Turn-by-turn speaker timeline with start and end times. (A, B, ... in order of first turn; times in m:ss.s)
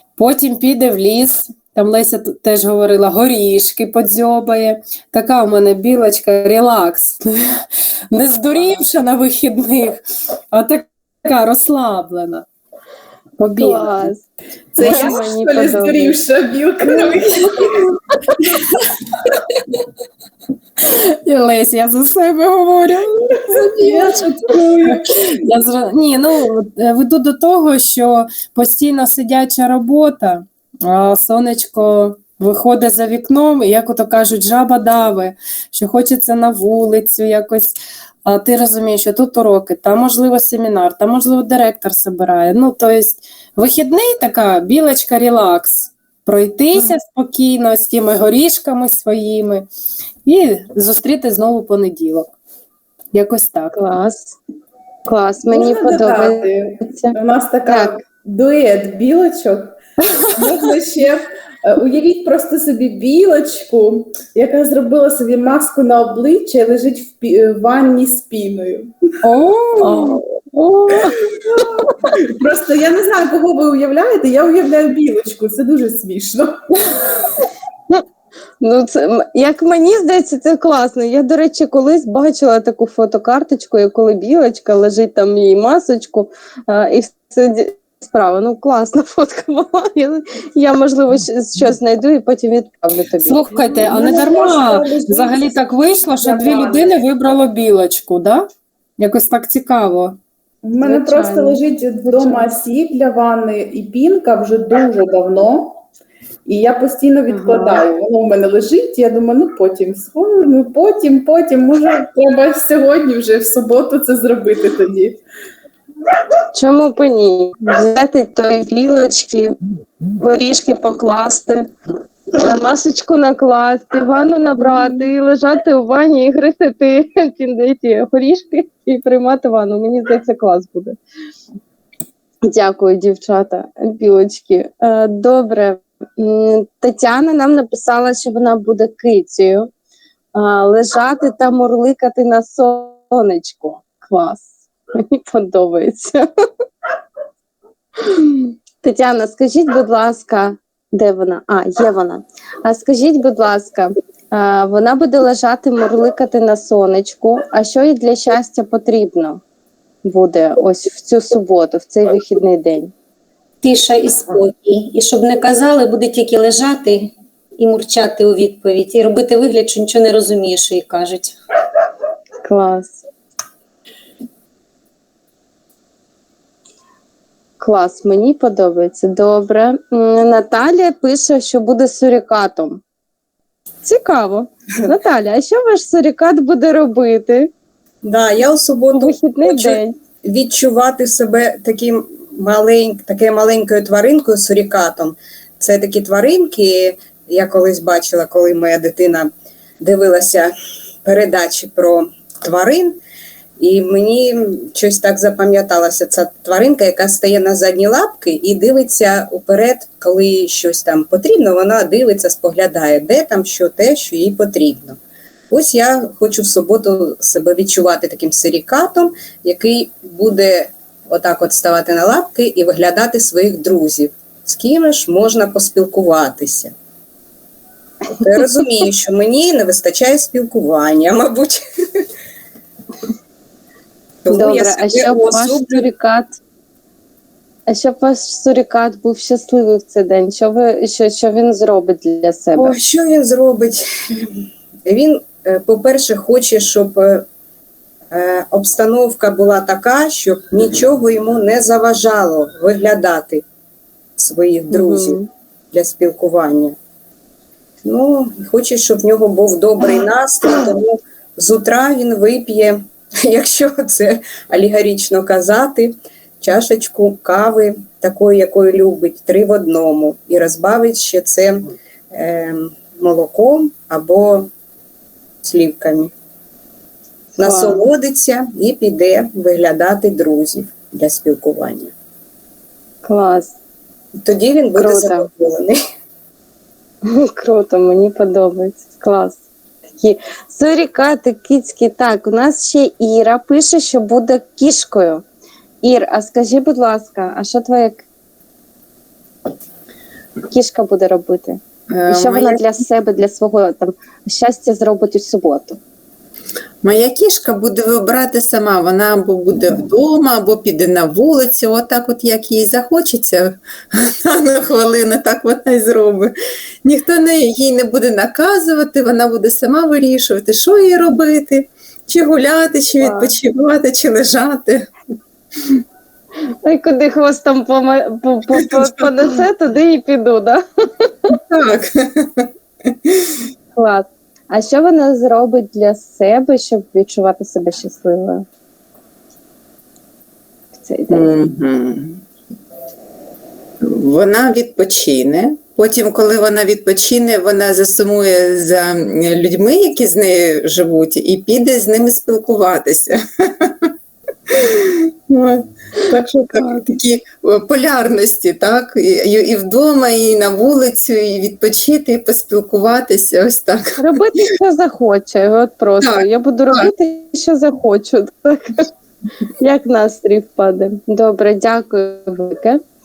0:00.2-0:10.0 A
0:10.5-0:12.4 A
0:13.4-0:14.1 A
0:13.4-0:14.2 B
0:14.7-0:17.7 C
0:14.8-0:16.2 B
0:14.8-0:15.1 A
0:20.8-0:24.1 A
0:23.4-0:25.1 C
0:24.9-0:49.7 A
0:50.2-0:52.3 A
0:53.1-0:53.8 A
0:53.7-0:54.3 B
0:55.0-0:57.2 B
0:55.5-0:59.7 C
0:57.7-0:58.0 B
1:00.3-1:08.9 C
1:09.2-1:10.2 A
1:09.8-1:11.2 B
1:12.2-1:17.0 C
1:18.6-1:33.4 B
1:33.2-1:40.2 A
1:33.5-1:35.6 C
1:36.2-1:36.9 C
1:40.6-1:45.8 C
1:40.8-1:42.5 B
1:46.4-1:55.2 C
1:47.3-1:47.8 B
1:56.5-1:59.6 B
2:00.2-2:01.7 B
2:02.3-2:11.0 B
2:12.4-2:19.7 B
2:20.3-2:26.2 B
2:28.0-2:39.4 B
2:40.0-2:42.9 B
2:43.6-2:51.4 D
2:52.4-2:53.0 B
2:57.6-3:02.8 B
3:03.8-3:07.5 B
3:08.0-3:19.3 E
3:09.0-3:09.9 B
3:19.8-3:20.5 E
3:21.0-3:23.0 E
3:23.6-3:35.0 E
3:35.5-3:46.7 E
3:48.2-3:51.6 E
3:54.2-3:55.8 E
3:54.3-3:56.4 B
3:57.7-4:02.8 B
4:02.6-4:07.2 E
4:08.1-4:13.4 E
4:14.2-4:15.2 E
4:14.7-4:15.3 B
4:15.7-4:16.8 E
4:17.8-4:34.5 E
4:35.4-4:36.1 E
4:37.4-4:41.9 E
4:37.4-4:37.8 B
4:43.0-4:43.5 B
4:44.2-4:45.8 E
4:44.7-4:45.3 B
4:47.0-4:49.4 B
4:50.0-4:55.2 B
4:55.8-4:58.0 B
5:00.5-5:05.8 B
5:01.9-5:02.6 F
5:06.8-5:16.3 F
5:16.8-5:24.9 F
5:23.0-5:23.3 B
5:26.6-5:31.1 B
5:31.3-5:32.5 F
5:33.0-5:33.4 F
5:33.7-5:38.4 B
5:40.8-5:41.4 B
5:41.1-5:42.2 F
5:43.8-5:53.9 F
5:54.5-6:04.1 F
6:04.0-6:08.8 B
6:06.0-6:06.9 F
6:09.6-6:12.8 B